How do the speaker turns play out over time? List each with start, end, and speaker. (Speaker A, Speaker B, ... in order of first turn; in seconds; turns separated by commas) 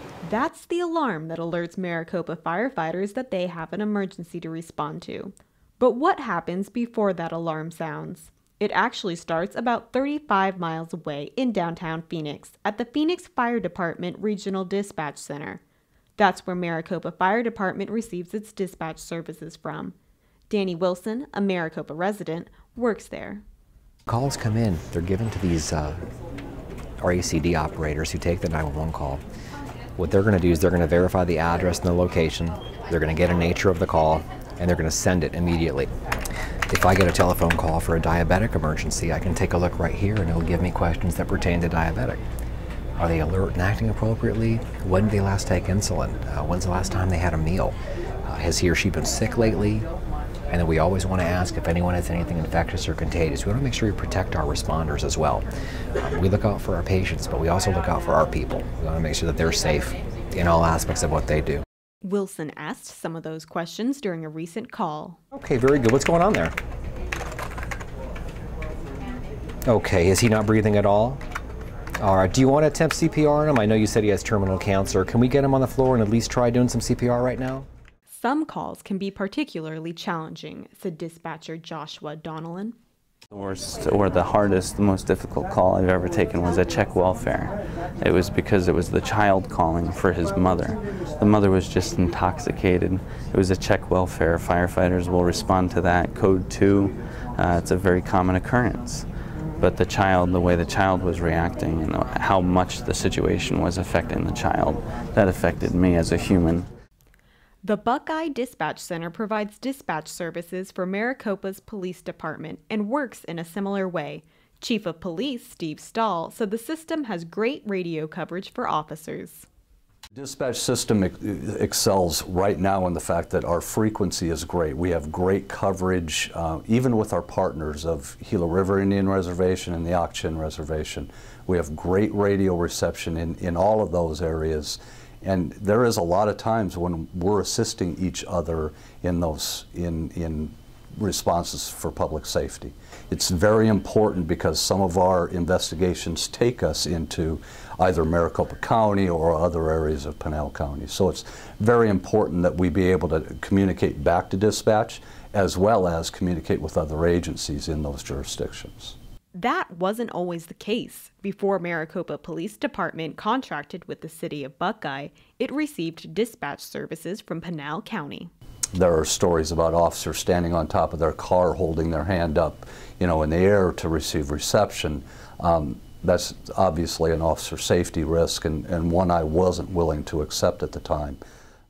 Speaker A: 0.2-15.6, Speaker A: 16.2-19.9, Speaker A: 20.5-23.4, Speaker B: 24.1-26.0, Speaker B: 27.0-29.2, Speaker B: 30.0-35.9, Speaker B: 36.7-42.2, Speaker B: 43.0-49.9, Speaker B: 50.5-55.5, Speaker B: 56.0-61.6, Speaker A: 62.0-65.2, Speaker B: 65.3-66.5, Speaker B: 69.7-71.2, Speaker B: 72.0-77.7, Speaker A: 78.1-82.8, Speaker C: 83.3-99.1, Speaker C: 99.6-106.7, Speaker A: 107.6-119.5, Speaker D: 120.1-158.9, Speaker A: 159.3-168.3, Speaker D: 168.7-181.2